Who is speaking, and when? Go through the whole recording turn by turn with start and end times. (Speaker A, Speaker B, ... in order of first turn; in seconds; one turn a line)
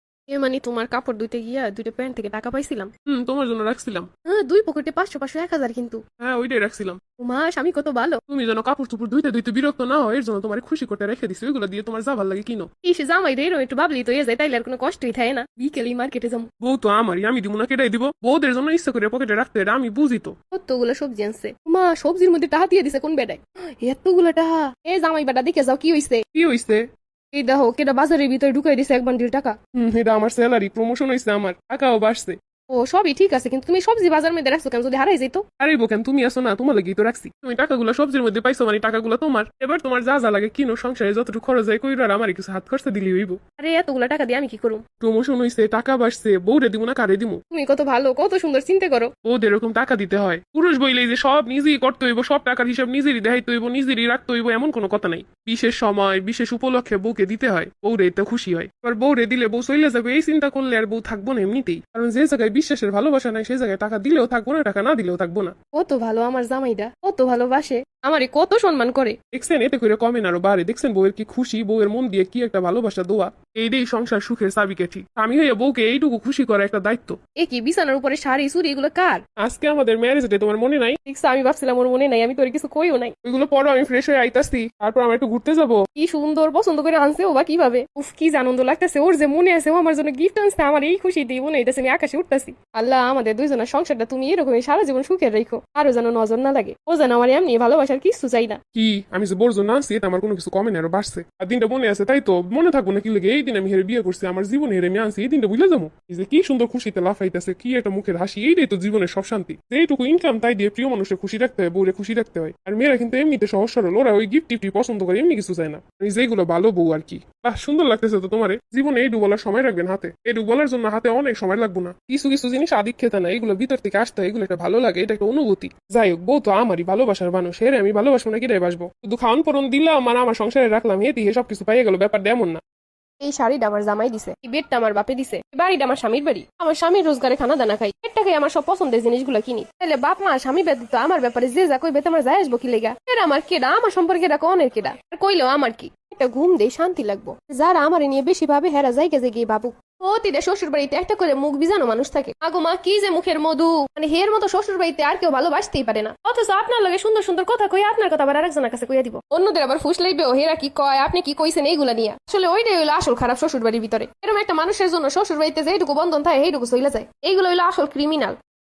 Speaker A: 0.3-2.9
Speaker B: 3.1-4.1
Speaker A: 4.3-6.0
Speaker B: 6.2-7.0
Speaker A: 7.2-8.2
Speaker B: 8.3-12.7
Speaker A: 12.8-16.5
Speaker B: 16.6-20.3
Speaker A: 20.5-26.2
Speaker B: 26.3-26.8
Speaker A: 27.3-29.6
Speaker B: 29.7-32.4
Speaker A: 32.7-35.4
Speaker B: 35.6-43.4
Speaker A: 43.5-44.9
Speaker B: 45.0-47.4
Speaker A: 47.5-49.1
Speaker B: 49.2-65.5
Speaker A: 65.7-69.2
Speaker B: 69.3-77.2
Speaker A: 77.3-79.2
Speaker B: 79.4-81.0
Speaker A: 81.0-83.1
Speaker B: 83.2-85.9
Speaker A: 85.9-98.6
Speaker B: 98.7-132.6
Speaker A: 133.2-168.3